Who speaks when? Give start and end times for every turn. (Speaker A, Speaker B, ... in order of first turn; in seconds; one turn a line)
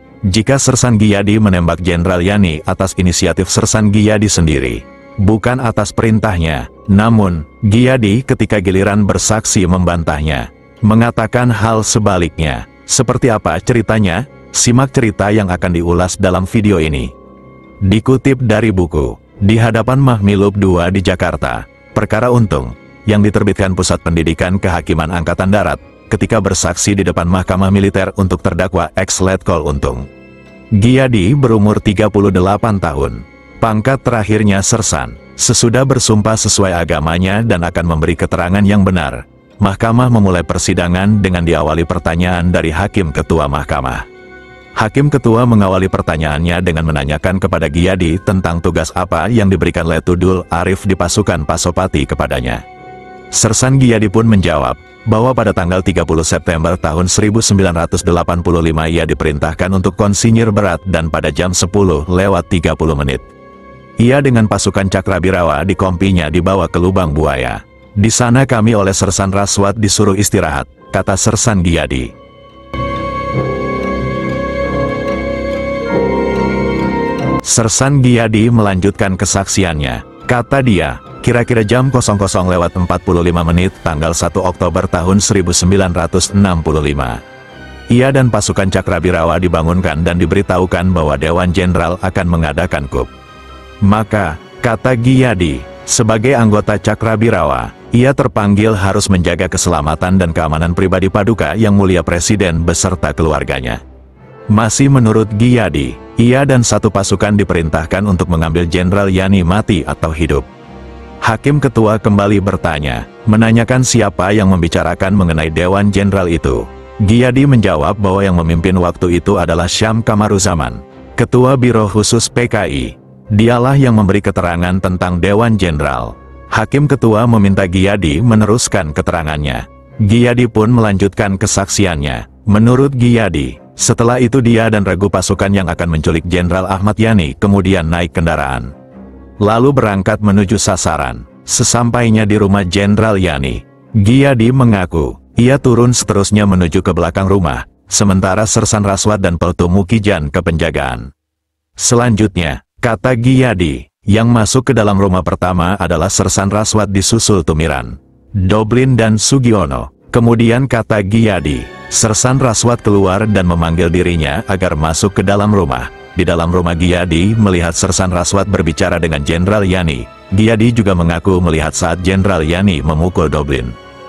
Speaker A: 0.2-17.1
Speaker A: 17.8-30.1
Speaker A: 30.7-44.1
Speaker A: 44.8-52.6
Speaker A: 53.3-63.3
Speaker A: 64.0-72.1
Speaker A: 77.4-87.2
Speaker A: 87.9-93.1
Speaker A: 93.8-103.8
Speaker A: 104.5-110.5
Speaker A: 111.2-138.7
Speaker A: 139.4-151.1
Speaker A: 151.8-173.8